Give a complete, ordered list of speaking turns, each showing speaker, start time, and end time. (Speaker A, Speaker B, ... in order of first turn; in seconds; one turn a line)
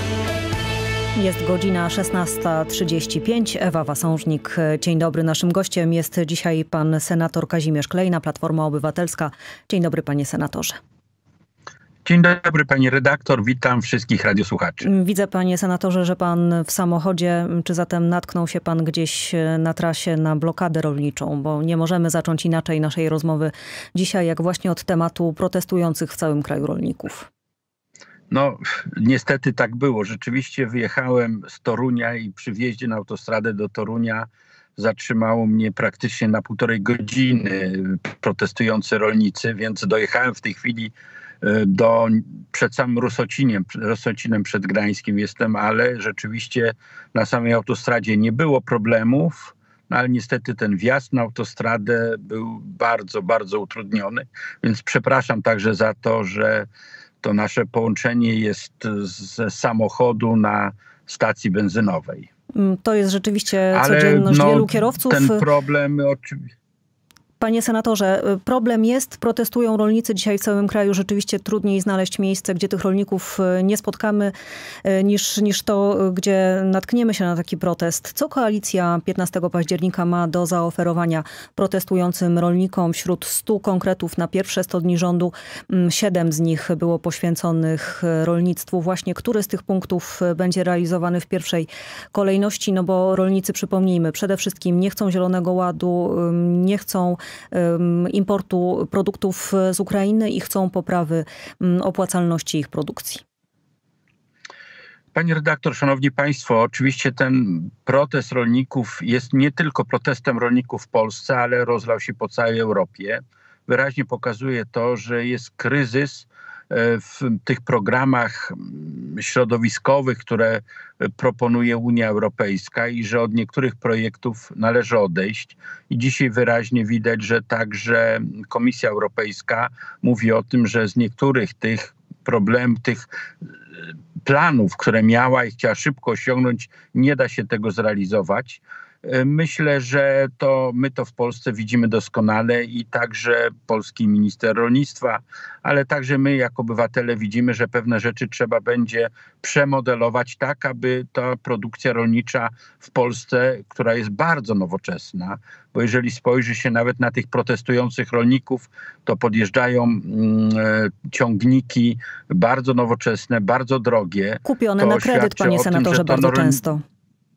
Speaker A: 1.2-10.8
Speaker B: 12.0-14.9
Speaker A: 14.8-27.3
Speaker B: 28.3-56.7
Speaker B: 57.2-62.3
Speaker A: 62.5-65.5
Speaker B: 63.7-66.4
Speaker A: 67.4-74.3
Speaker A: 74.8-103.2
Speaker B: 105.1-133.1
Speaker B: 134.2-166.6
Speaker A: 164.4-166.8